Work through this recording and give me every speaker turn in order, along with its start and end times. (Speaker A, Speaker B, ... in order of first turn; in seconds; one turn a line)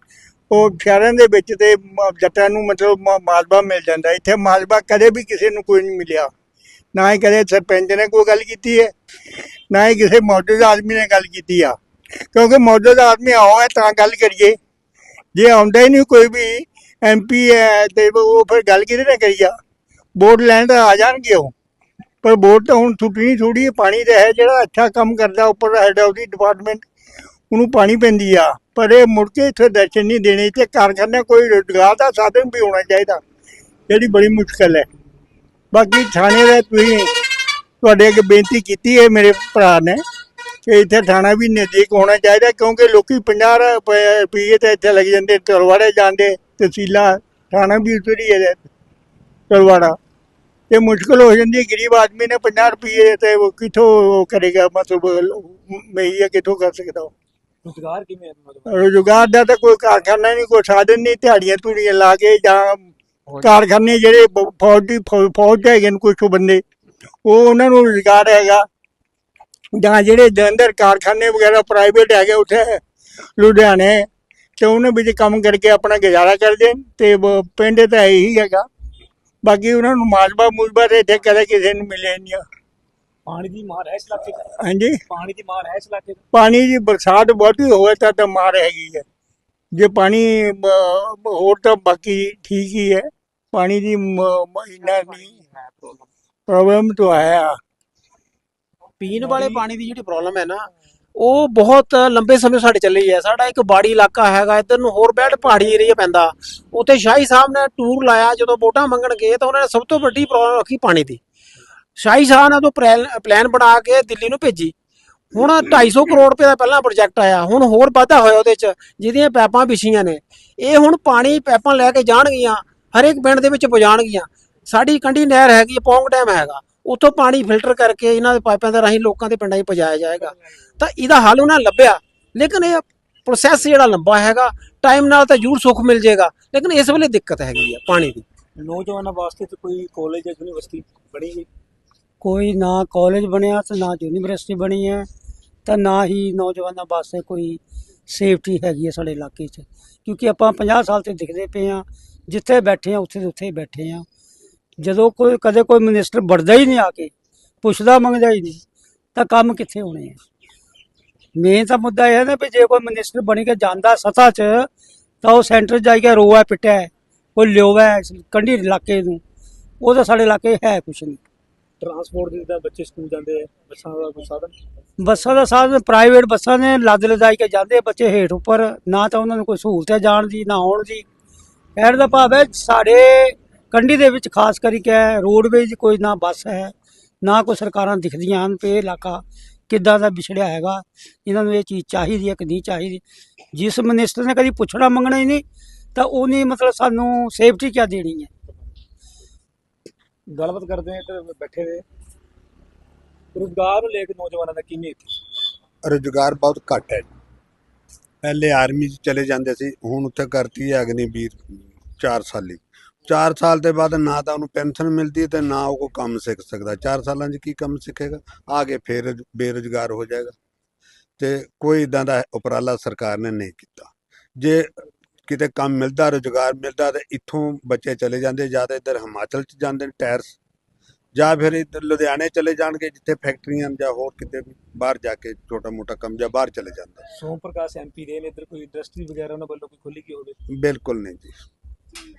Speaker A: 0.5-6.3
Speaker A: 6.9-8.9
Speaker A: 9.7-11.8
Speaker A: 12.3-14.6
Speaker A: 15.3-19.6
Speaker A: 20.2-21.5
Speaker A: 22.2-26.9
Speaker A: 27.5-33.2
Speaker A: 33.9-34.9
Speaker A: 35.7-37.1
Speaker A: 37.8-40.0
Speaker A: 40.7-48.7
Speaker A: 49.5-50.0
Speaker A: 50.7-57.1
Speaker B: 57.6-58.9
Speaker A: 58.7-62.9
Speaker A: 63.4-66.6
Speaker A: 67.3-68.7
Speaker A: 69.8-72.8
Speaker A: 73.4-74.1
Speaker A: 74.6-78.7
Speaker A: 79.4-82.5
Speaker B: 83.3-84.5
Speaker A: 84.6-85.0
Speaker B: 85.1-86.2
Speaker A: 86.3-89.0
Speaker A: 89.8-95.4
Speaker A: 96.5-97.6
Speaker C: 99.0-111.2
Speaker C: 112.0-114.7
Speaker C: 115.3-138.2
Speaker B: 138.6-141.5
Speaker D: 142.2-145.1
Speaker D: 145.7-154.1
Speaker D: 154.8-157.1
Speaker D: 157.6-158.6
Speaker D: 159.2-160.2
Speaker D: 161.4-164.7
Speaker D: 165.2-169.2
Speaker D: 169.8-171.2
Speaker B: 171.8-174.6
Speaker D: 175.0-181.1
Speaker D: 181.8-193.0
Speaker D: 193.6-195.4
Speaker D: 196.0-198.3
Speaker B: 200.3-201.8
Speaker B: 203.3-205.1
Speaker E: 205.8-207.1
Speaker E: 208.2-220.4
Speaker E: 221.2-230.4
Speaker E: 231.2-237.0
Speaker B: 237.2-240.4
Speaker E: 240.5-241.4